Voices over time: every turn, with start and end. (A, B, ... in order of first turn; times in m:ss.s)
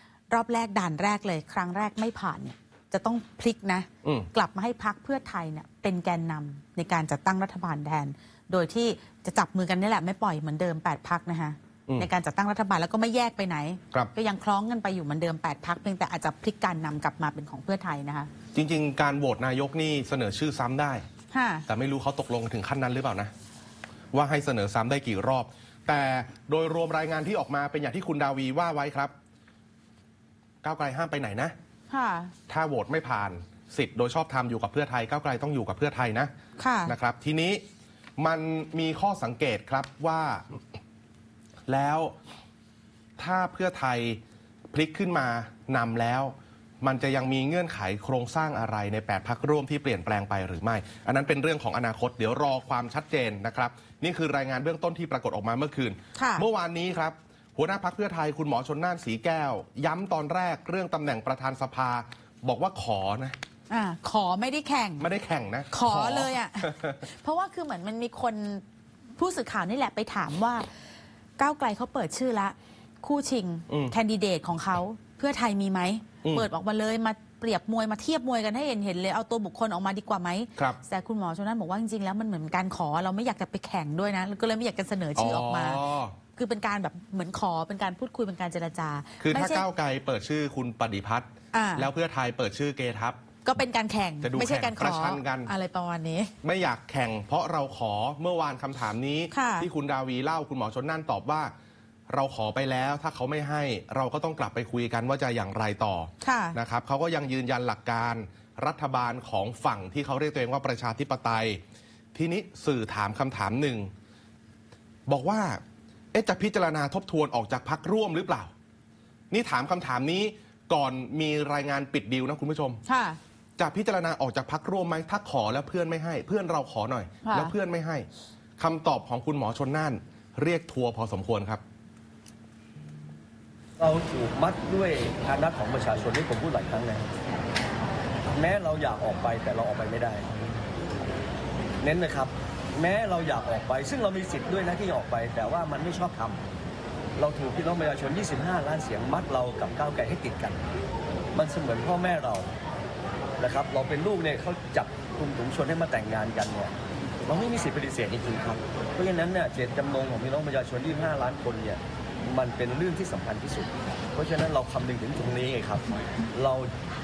0:00.3-0:18.3 A
0:04.0-0:04.3 B
0:18.5-0:21.0 B
0:21.3-0:21.6 A
0:21.7-0:23.3 B
0:24.1-0:29.1 B
0:30.6-0:31.5 B
0:31.9-0:32.3 A
0:32.5-0:36.3 B
0:36.6-0:37.0 A
0:36.8-0:37.6 B
0:38.2-0:40.6 B
0:41.7-0:42.1 B
0:43.2-0:44.2 B
0:44.7-1:03.4 B
0:56.1-0:56.4 A
1:03.7-1:05.0 A
1:05.0-1:07.0 B
1:05.7-1:08.6 A
1:09.2-1:10.6 A
1:11.4-1:25.8 A
1:13.7-1:13.9 B
1:25.2-1:26.1 B
1:26.3-1:29.6 A
1:29.2-1:33.2 B
1:31.5-1:31.9 A
1:33.4-1:36.3 A
1:34.2-1:35.5 B
1:36.4-1:41.5 B
1:39.3-1:39.7 A
1:42.1-1:51.6 B
1:46.2-1:46.6 A
1:52.1-1:53.9 B
1:55.1-1:55.6 B
1:56.1-1:58.5 B
1:59.3-2:02.8 B
2:02.8-2:03.2 A
2:03.6-2:11.6 B
2:07.2-2:07.5 A
2:13.8-2:17.1 C
2:18.3-2:20.4 C
2:21.8-2:26.4 C
2:27.2-2:30.6 C
2:31.3-2:32.5 C
2:33.4-2:36.7 C
2:37.2-2:46.7 C